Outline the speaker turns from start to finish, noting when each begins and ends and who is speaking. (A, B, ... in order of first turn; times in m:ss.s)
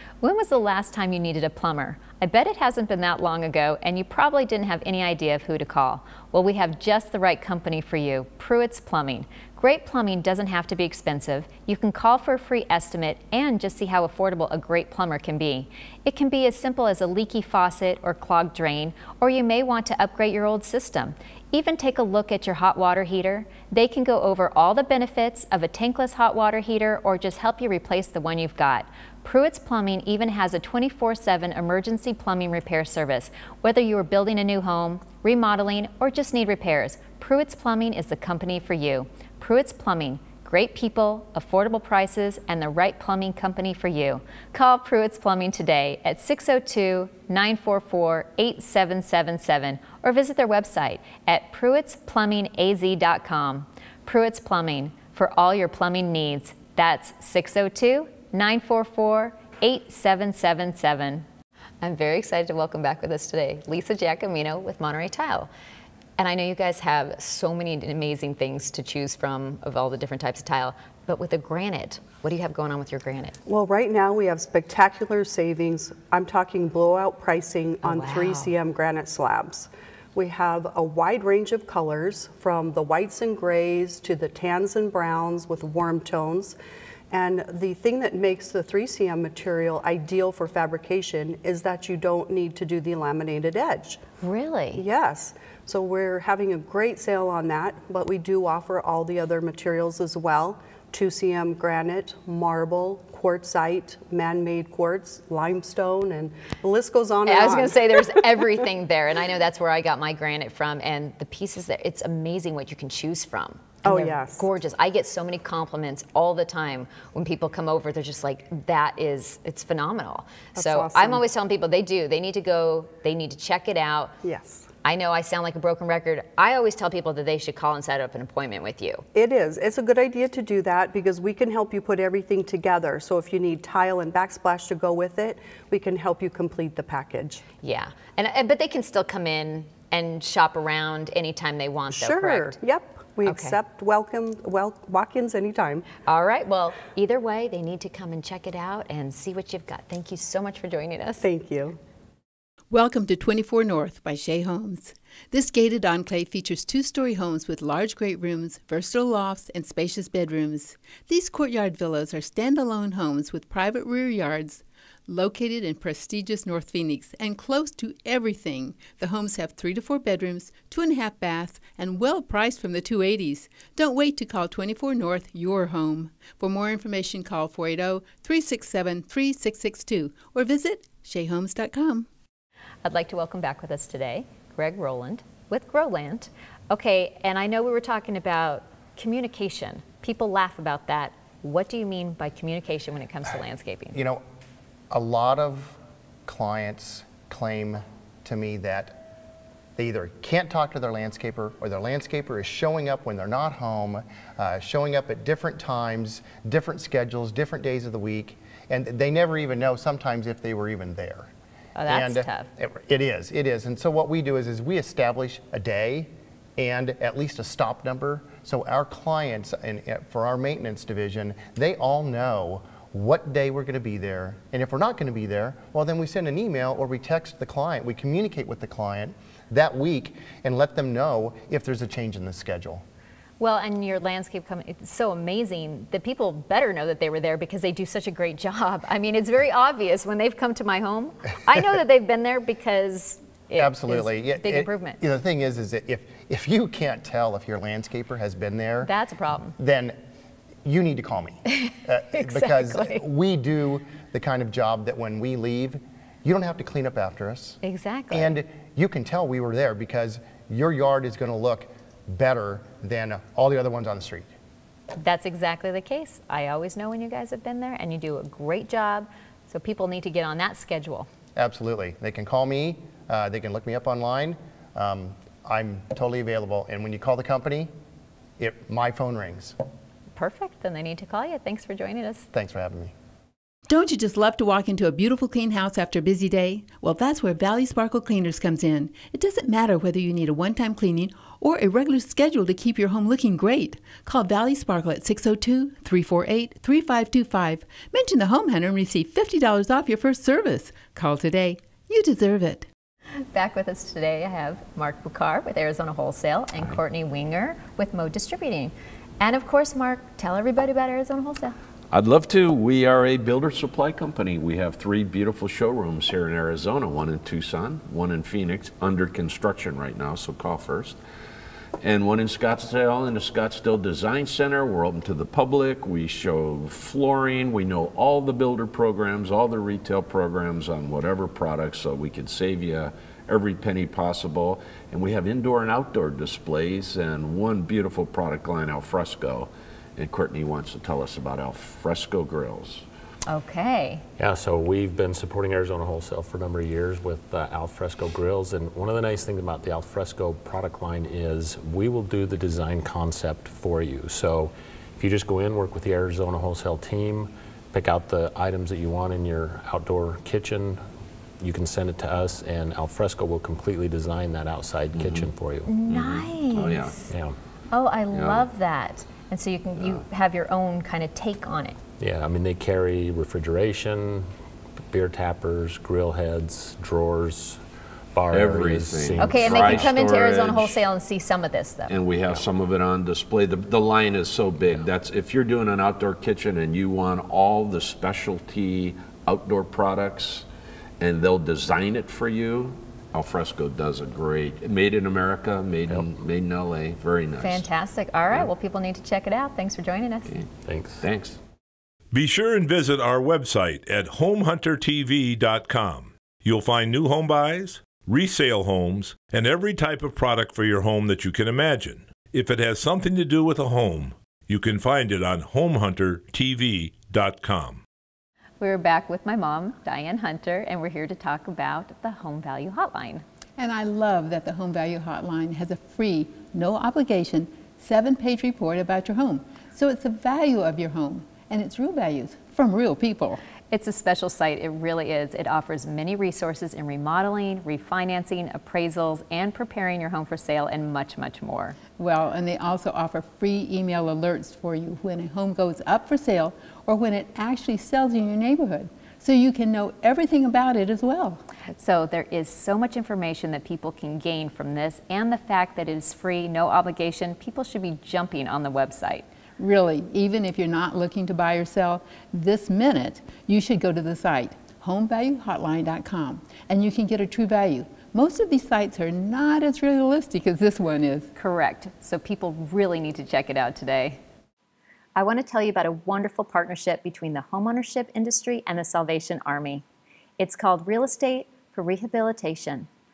0:00.2-1:01.2 A
1:01.8-1:05.5 A
1:06.2-1:13.3 A
1:13.4-1:26.6 B
1:17.8-1:18.5 A
1:27.1-1:34.0 B
1:34.2-1:34.8 A
1:34.7-1:48.6 B
1:47.2-2:04.1 A
1:53.8-1:54.4 B
2:00.6-2:01.2 B
2:04.2-2:04.6 B
2:04.8-2:09.0 A
2:09.1-2:17.4 B
2:17.6-2:22.6 A
2:21.9-2:25.8 B
2:23.2-2:23.6 A
2:26.1-2:31.2 A
2:31.2-2:31.8 B
2:32.7-3:02.1 C
3:02.8-3:14.0 A
3:13.9-3:14.2 D
3:14.9-3:19.0 D
3:19.8-3:31.3 D
3:31.8-3:32.5 A
3:31.8-3:52.8 D
3:53.4-4:05.0 A
4:03.6-4:08.9 D
4:08.8-4:09.6 A
4:09.6-4:10.0 D
4:10.6-4:17.6 D
4:11.5-4:13.0 A
4:17.6-4:18.3 A
4:18.1-4:24.3 D
4:25.0-4:31.1 A
4:31.4-4:37.7 D
4:38.4-4:39.5 D
4:40.2-4:42.3 A
4:42.3-4:42.9 D
4:43.7-5:02.6 C
5:03.3-5:11.6 A
5:11.9-5:21.0 E
5:21.8-5:42.8 E
5:43.3-5:44.0 A
5:44.2-6:00.8 F
6:01.4-6:05.7 F
6:04.9-6:05.3 E
6:05.7-6:07.0 A
6:05.8-6:07.0 E
6:07.1-6:07.4 F
6:07.7-6:11.8 A
6:08.1-6:08.5 E
6:12.0-6:14.3 F
6:14.9-6:17.6 F
6:18.1-6:19.9 F
6:18.3-6:20.8 E
6:19.2-6:21.9 A
6:21.9-6:30.4 E
6:31.0-6:37.7 E
6:37.4-6:40.4 A
6:40.3-6:41.4 E
6:40.6-6:41.0 F
6:42.1-6:57.8 G
6:58.6-7:03.2 A
7:03.6-7:13.4 C
7:13.7-7:21.8 A
7:22.0-7:31.4 C
7:31.6-7:39.2 A
7:39.6-7:51.3 C
7:51.3-7:54.2 A
7:55.2-7:59.8 A
8:00.4-8:02.9 A